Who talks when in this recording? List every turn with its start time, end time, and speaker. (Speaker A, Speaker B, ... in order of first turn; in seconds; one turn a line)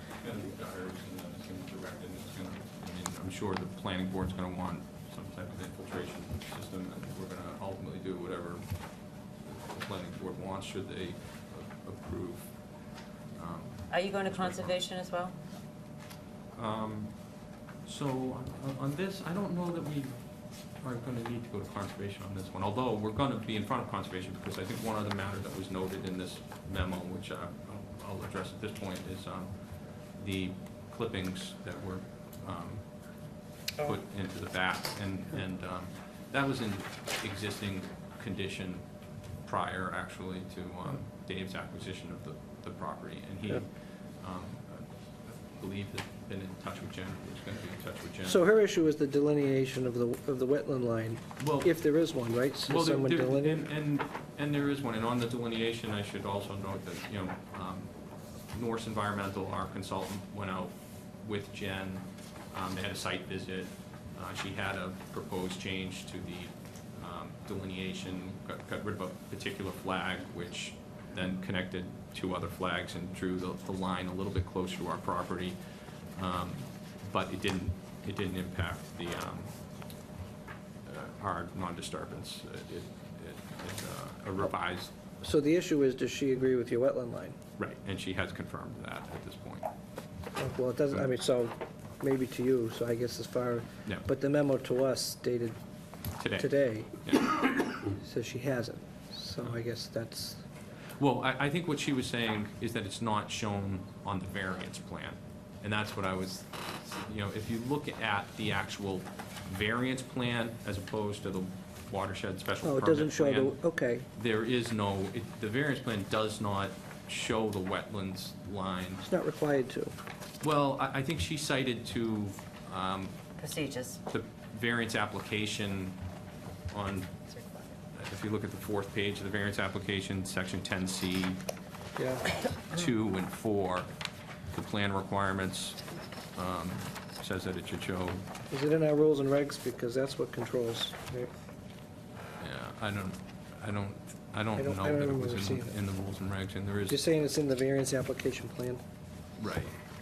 Speaker A: 0.2-8.7
Speaker A: 9.4-12.6
Speaker A: 13.3-14.8
Speaker B: 13.9-15.3
Speaker A: 16.5-17.2
Speaker A: 17.8-20.2
Speaker A: 20.8-29.5
Speaker A: 30.1-32.9
Speaker A: 33.8-38.9
Speaker A: 39.4-48.4
Speaker C: 48.2-53.6
Speaker A: 51.4-51.7
Speaker A: 52.7-57.9
Speaker A: 58.5-75.6
Speaker A: 76.1-79.5
Speaker A: 80.8-84.9
Speaker C: 85.2-87.4
Speaker A: 87.6-89.7
Speaker C: 90.4-95.6
Speaker A: 96.2-96.5
Speaker C: 96.4-97.0
Speaker A: 97.0-97.3
Speaker C: 97.9-100.4
Speaker A: 101.0-113.6
Speaker C: 112.6-114.1
Speaker A: 114.1-119.0
Speaker C: 119.0-119.9
Speaker A: 120.4-123.2
Speaker B: 123.4-124.0
Speaker A: 124.1-126.0
Speaker A: 126.7-127.1
Speaker B: 127.3-127.7
Speaker A: 127.9-131.4
Speaker C: 131.9-132.3
Speaker A: 132.6-133.9
Speaker A: 134.5-135.8
Speaker A: 136.3-138.2
Speaker C: 138.5-141.3
Speaker A: 142.4-147.0
Speaker C: 144.6-145.8
Speaker C: 146.9-148.8
Speaker A: 149.4-149.7